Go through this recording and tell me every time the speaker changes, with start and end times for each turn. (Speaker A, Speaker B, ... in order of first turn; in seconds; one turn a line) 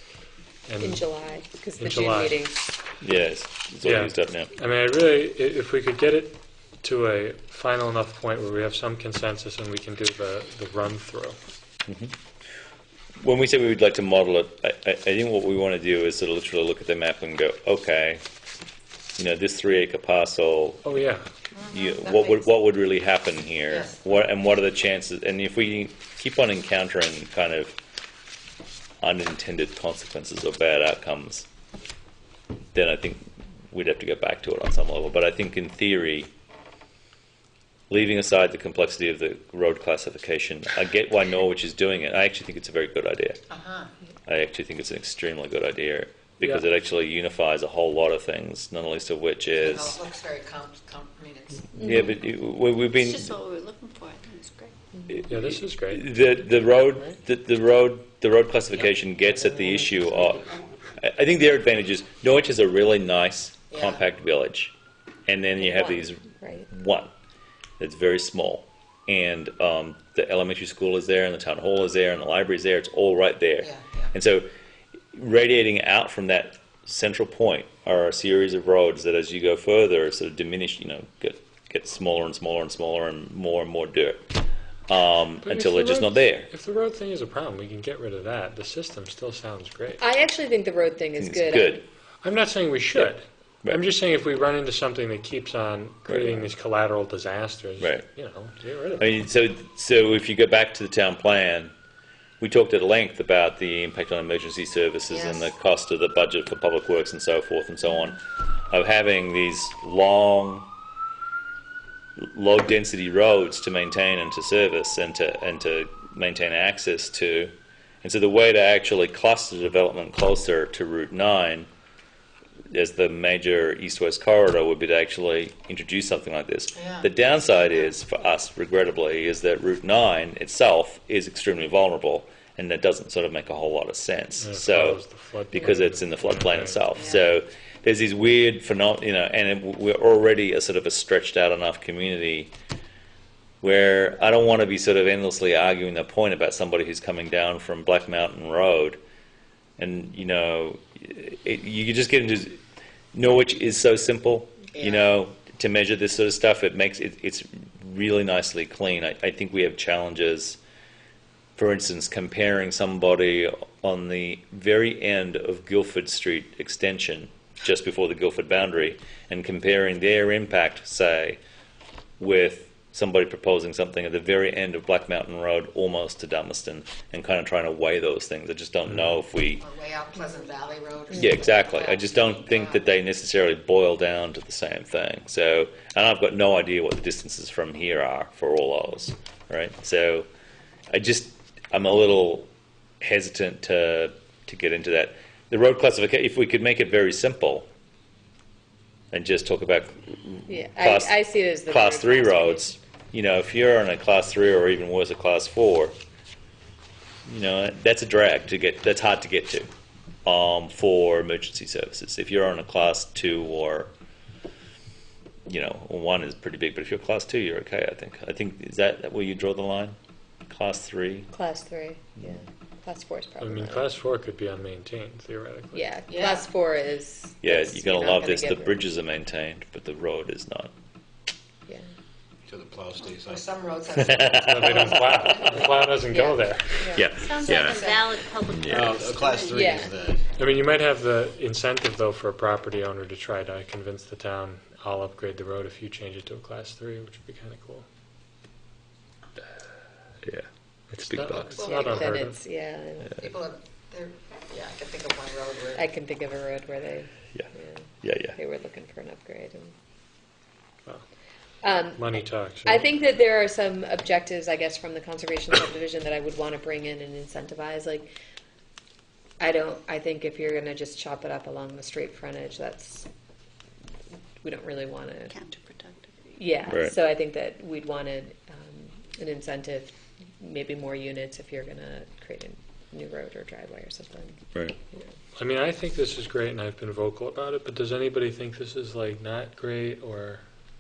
Speaker A: 0.7-1.1
Speaker B: 0.8-2.6
Speaker A: 1.8-2.4
Speaker C: 3.0-4.5
Speaker A: 3.8-11.4
Speaker C: 11.9-12.1
Speaker C: 13.2-18.2
Speaker C: 19.2-20.9
Speaker A: 20.8-21.3
Speaker D: 21.5-22.5
Speaker C: 21.7-27.8
Speaker D: 23.7-24.0
Speaker C: 29.0-31.5
Speaker C: 32.7-36.3
Speaker C: 37.9-43.4
Speaker D: 43.5-43.9
Speaker C: 44.3-50.0
Speaker D: 49.6-51.8
Speaker B: 51.8-52.1
Speaker C: 51.8-53.3
Speaker E: 52.9-54.7
Speaker B: 54.9-55.2
Speaker C: 55.1-64.7
Speaker A: 55.3-56.2
Speaker B: 56.6-57.2
Speaker D: 63.7-64.0
Speaker C: 65.3-67.1
Speaker B: 65.6-66.7
Speaker C: 67.8-74.5
Speaker D: 73.6-74.1
Speaker C: 75.1-84.3
Speaker C: 84.9-86.5
Speaker A: 85.4-90.0
Speaker B: 90.0-91.8
Speaker C: 91.2-91.8
Speaker A: 92.2-99.1
Speaker C: 96.1-96.4
Speaker C: 97.8-98.1
Speaker C: 99.0-101.7
Speaker C: 102.4-108.2
Speaker D: 105.1-105.5
Speaker C: 108.7-110.7
Speaker C: 112.2-121.7
Speaker C: 122.7-142.5
Speaker D: 126.8-127.1
Speaker A: 134.4-136.8
Speaker D: 136.9-137.2
Speaker C: 143.6-149.0
Speaker C: 149.8-152.6
Speaker C: 153.1-160.6
Speaker D: 154.8-155.1
Speaker C: 161.6-171.4
Speaker C: 172.2-179.6
Speaker D: 179.6-182.9
Speaker B: 181.1-181.5
Speaker C: 181.2-190.3
Speaker C: 190.9-192.5
Speaker C: 193.0-197.7
Speaker C: 199.1-206.0
Speaker B: 200.5-202.8
Speaker C: 207.3-209.7
Speaker C: 210.2-213.9
Speaker C: 215.5-220.0
Speaker C: 220.5-221.3
Speaker B: 221.3-223.9
Speaker A: 223.4-225.9
Speaker B: 225.7-228.8
Speaker D: 226.1-226.5
Speaker C: 227.4-230.7
Speaker F: 232.5-233.5
Speaker D: 233.0-235.7
Speaker A: 234.2-236.9
Speaker B: 236.1-237.1
Speaker C: 236.9-237.9
Speaker E: 237.2-239.9
Speaker D: 237.4-238.2
Speaker C: 238.5-238.9
Speaker F: 238.7-240.3
Speaker B: 239.5-239.9
Speaker A: 240.4-247.9
Speaker C: 250.2-252.0
Speaker A: 251.0-252.4
Speaker E: 251.6-251.9
Speaker B: 251.6-253.3
Speaker D: 253.2-255.9
Speaker B: 255.7-259.7
Speaker C: 258.0-258.4
Speaker B: 261.6-268.1
Speaker A: 262.0-262.9
Speaker B: 269.4-273.1
Speaker B: 274.4-275.3
Speaker E: 275.3-276.1
Speaker B: 276.3-284.4
Speaker C: 276.7-277.0
Speaker A: 285.4-290.4